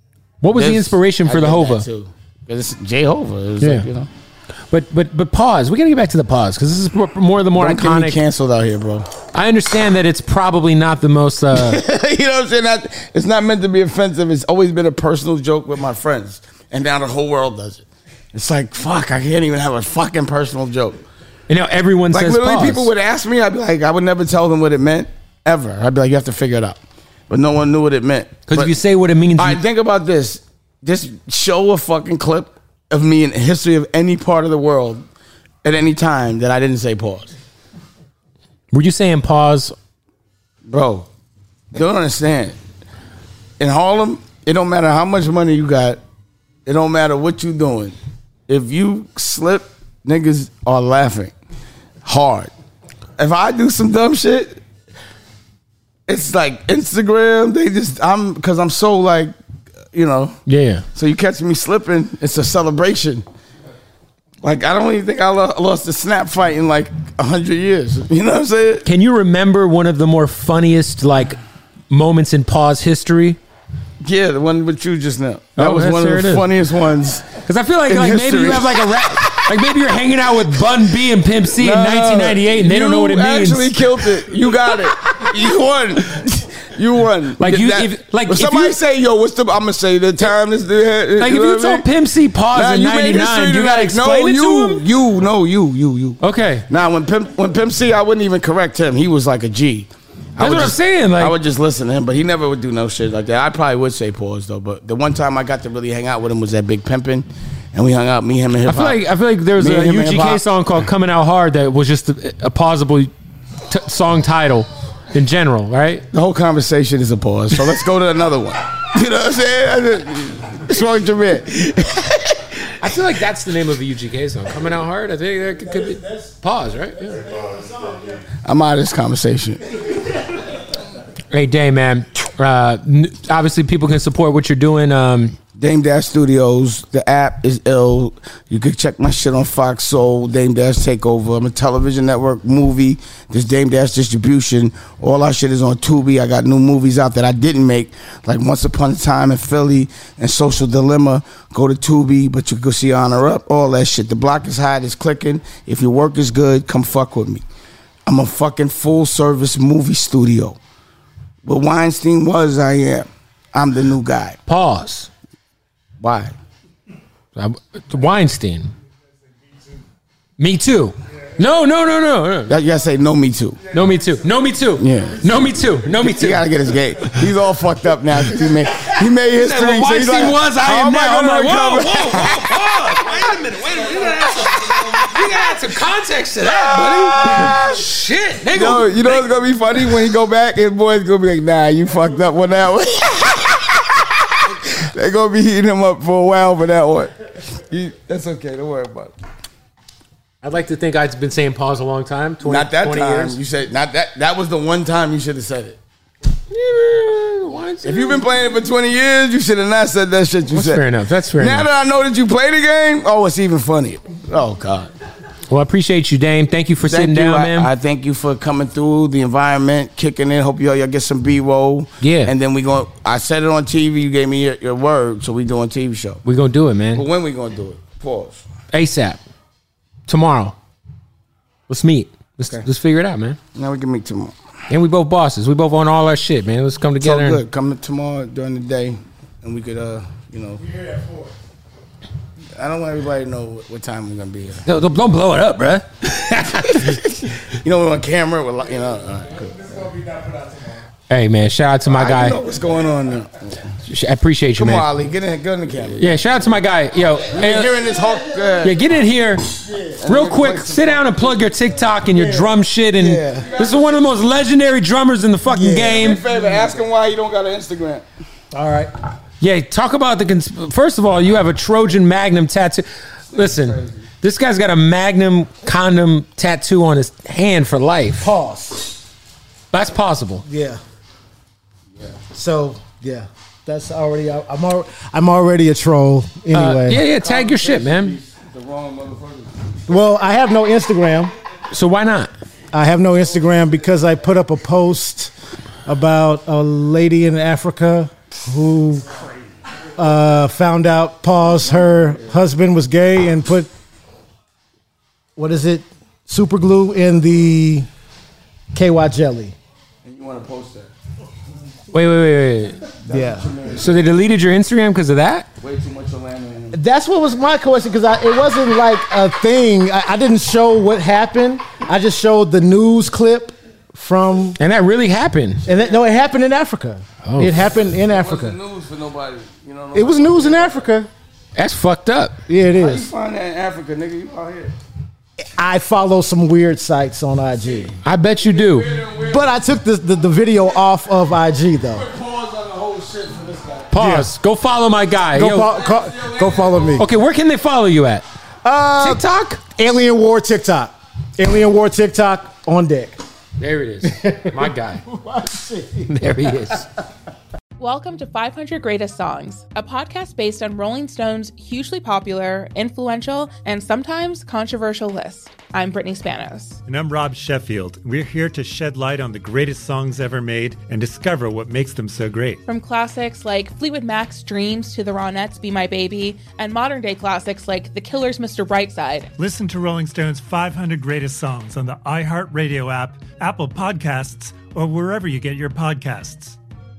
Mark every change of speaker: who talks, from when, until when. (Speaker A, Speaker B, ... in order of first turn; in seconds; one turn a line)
Speaker A: 0.4-1.9
Speaker B: 0.5-4.1
Speaker A: 3.6-3.9
Speaker A: 4.7-8.2
Speaker B: 7.6-9.1
Speaker A: 9.3-11.8
Speaker B: 11.5-21.0
Speaker A: 21.5-22.9
Speaker B: 22.1-28.8
Speaker A: 28.5-29.6
Speaker B: 29.4-35.0
Speaker B: 35.6-37.3
Speaker A: 38.7-39.8
Speaker B: 40.6-41.1
Speaker B: 41.7-42.6
Speaker B: 43.6-46.0
Speaker B: 46.7-48.0
Speaker B: 48.5-51.3
Speaker B: 52.0-52.5
Speaker B: 53.2-54.6
Speaker B: 56.1-59.3
Speaker B: 59.9-60.4
Speaker A: 60.5-60.9
Speaker B: 61.0-63.3
Speaker B: 64.4-68.9
Speaker A: 68.8-71.4
Speaker A: 71.9-73.4
Speaker B: 74.0-79.8
Speaker A: 75.6-76.5
Speaker A: 77.3-83.8
Speaker B: 81.6-91.9
Speaker A: 85.0-85.3
Speaker A: 87.4-88.8
Speaker A: 91.2-94.8
Speaker B: 92.5-109.0
Speaker A: 96.2-96.7
Speaker A: 100.4-101.3
Speaker A: 108.7-113.1
Speaker B: 109.6-110.4
Speaker A: 113.7-116.0
Speaker B: 116.1-122.4
Speaker A: 122.8-127.3
Speaker C: 127.4-127.7
Speaker B: 127.6-129.8
Speaker A: 131.3-135.4
Speaker B: 135.6-157.4
Speaker B: 158.1-160.6
Speaker B: 161.4-164.4
Speaker A: 164.5-165.1
Speaker B: 166.0-166.3
Speaker A: 167.4-168.7
Speaker A: 170.4-172.5
Speaker B: 172.5-173.6
Speaker A: 173.7-176.5
Speaker B: 174.8-175.3
Speaker B: 176.0-182.5
Speaker A: 178.4-189.3
Speaker B: 184.7-185.0
Speaker B: 186.5-187.8
Speaker B: 188.5-199.1
Speaker A: 200.4-203.4
Speaker B: 202.4-205.8
Speaker A: 206.5-208.2
Speaker B: 207.8-210.8
Speaker A: 210.5-211.7
Speaker B: 211.4-214.9
Speaker A: 215.5-217.7
Speaker B: 216.8-226.2
Speaker A: 222.0-222.3
Speaker A: 226.2-227.1
Speaker B: 226.9-228.5
Speaker A: 228.7-229.2
Speaker A: 230.1-230.6
Speaker A: 231.7-233.4
Speaker B: 233.6-234.4
Speaker A: 234.7-237.4
Speaker B: 237.0-240.7
Speaker C: 240.7-241.3
Speaker B: 242.6-244.7
Speaker A: 244.7-247.0
Speaker B: 246.8-249.9
Speaker C: 249.8-250.8
Speaker A: 251.1-252.4
Speaker B: 251.8-253.6
Speaker A: 253.9-254.9
Speaker B: 254.6-256.1
Speaker A: 256.0-257.9
Speaker B: 257.3-258.8
Speaker A: 258.6-266.2
Speaker C: 259.7-260.0
Speaker B: 260.0-261.5
Speaker C: 262.1-262.5
Speaker B: 263.0-264.0
Speaker C: 263.0-263.5
Speaker C: 265.5-266.1
Speaker B: 265.8-268.1
Speaker C: 268.5-268.9
Speaker A: 269.4-278.3
Speaker B: 273.3-274.0
Speaker C: 278.2-279.0
Speaker A: 279.7-280.4
Speaker C: 280.5-280.8
Speaker C: 282.3-287.1
Speaker A: 286.5-288.2
Speaker B: 287.1-289.8
Speaker C: 289.9-291.3
Speaker A: 291.7-292.3
Speaker C: 292.7-295.3
Speaker C: 295.9-299.1
Speaker C: 300.0-303.7
Speaker C: 305.4-307.9
Speaker C: 308.7-309.6
Speaker B: 310.0-310.9
Speaker A: 311.9-312.9
Speaker B: 313.1-314.1
Speaker C: 313.1-313.5
Speaker A: 313.7-315.5
Speaker B: 315.6-316.8
Speaker C: 316.7-324.6
Speaker A: 324.6-325.6
Speaker C: 325.7-328.6
Speaker A: 327.3-327.7
Speaker B: 327.9-330.9
Speaker C: 329.9-331.1
Speaker A: 331.6-332.4
Speaker C: 332.5-333.1
Speaker B: 332.7-334.8
Speaker C: 335.6-338.0
Speaker A: 338.0-339.1
Speaker B: 338.4-339.6
Speaker C: 339.2-342.1
Speaker B: 341.9-344.0
Speaker A: 343.9-345.9
Speaker C: 344.0-344.3
Speaker C: 345.4-347.1
Speaker B: 345.7-346.9
Speaker A: 347.0-348.2
Speaker C: 348.6-349.2
Speaker A: 349.0-349.6
Speaker C: 349.7-353.2
Speaker A: 353.6-355.0
Speaker C: 354.1-356.1
Speaker A: 356.1-356.9
Speaker D: 357.8-366.8
Speaker E: 366.9-372.6
Speaker D: 372.7-379.3
Speaker E: 379.4-386.6